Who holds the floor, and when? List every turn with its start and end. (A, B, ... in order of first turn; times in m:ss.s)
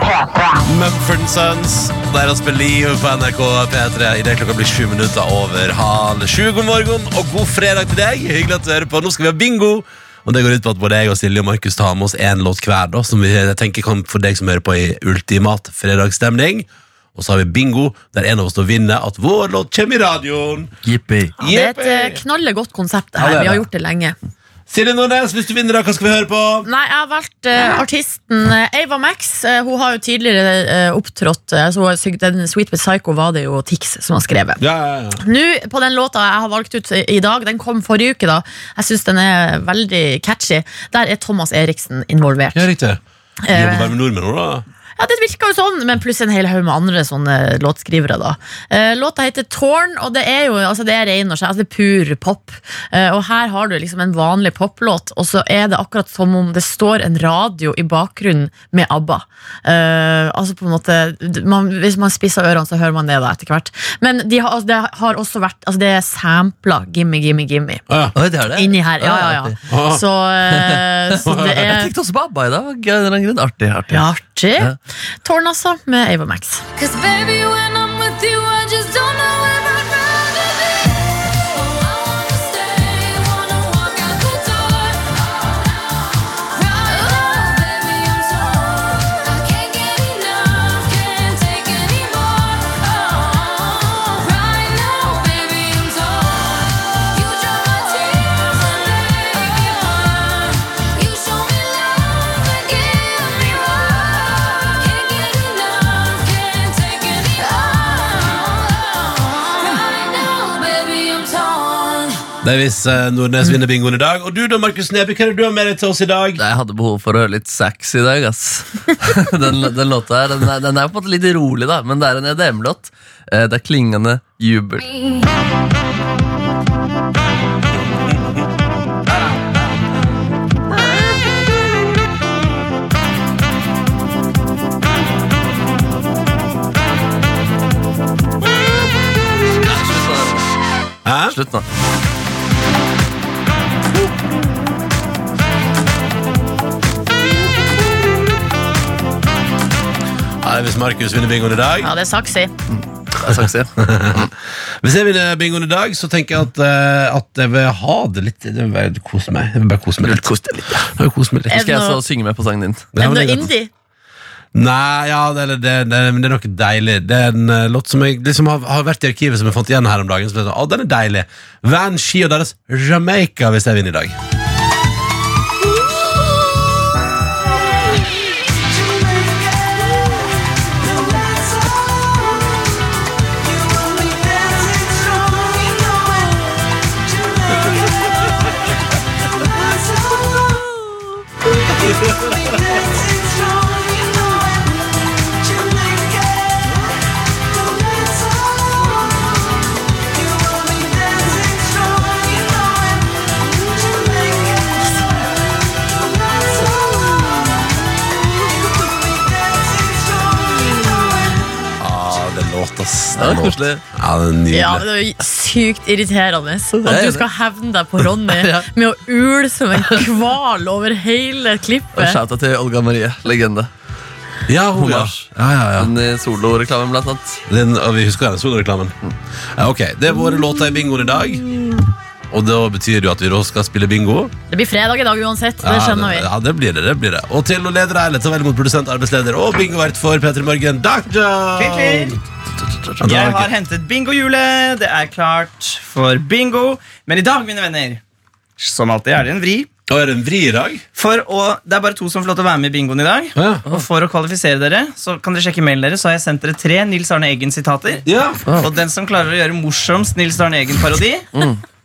0:00.6-0:20.7 A
0:20.8-0:21.3 B
0:21.4-0:24.1 C
0:21.4-0:22.2 A
0:23.2-0:23.6 A
0:24.7-0:26.7 A
0:26.6-0:34.6 C
0:34.6-0:35.2 A
0:35.2-0:42.7 C
0:42.5-0:44.6 A
0:43.5-0:43.9 C
0:45.0-1:07.8 C
1:07.9-1:08.2 A
1:08.1-1:09.6 B
1:08.5-1:11.9 C
1:09.7-1:10.0 A
1:10.5-1:14.0 B
1:13.9-1:14.7 C
1:15.2-1:16.6 C
1:16.8-1:52.2 D
1:52.4-1:56.4 A
1:56.4-2:04.8 B
2:19.6-2:20.4 B
2:21.0-2:21.4 A
2:21.3-2:21.6 B
2:30.4-2:31.9 A
2:31.8-2:32.5 C
2:33.2-2:33.7 B
2:33.2-2:41.6 A
2:40.2-2:40.8 E
2:41.5-2:43.0 B
2:41.5-2:42.0 C
2:43.0-2:43.5 A
2:43.0-2:43.7 C
2:44.5-2:54.2 A
3:04.0-3:06.4 D
3:07.5-3:08.1 D
3:12.2-3:14.6 D
3:15.3-3:16.5 D
3:17.7-3:18.3 D
3:20.2-3:22.8 D
3:23.8-3:24.8 D
3:30.1-3:31.0 D
3:31.8-3:34.8 A
3:33.2-3:33.8 B
3:34.5-3:42.2 C
3:36.8-3:37.2 B
3:38.3-3:38.7 B
3:42.0-3:43.7 B
3:44.5-3:45.9 A
3:44.8-3:47.4 B
3:47.5-3:48.9 A
3:49.6-3:51.5 A
3:52.3-3:54.3 A
3:54.5-3:56.3 C
3:55.6-4:02.2 A
4:01.6-4:02.2 E
4:03.0-4:03.5 A
4:03.0-4:08.0 E
4:08.6-4:09.7 E
4:09.9-4:10.8 A
4:11.0-4:18.0 E
4:13.4-4:13.6 A
4:18.0-4:18.4 A
4:18.5-4:18.7 B
4:18.6-4:21.3 E
4:21.3-4:21.6 B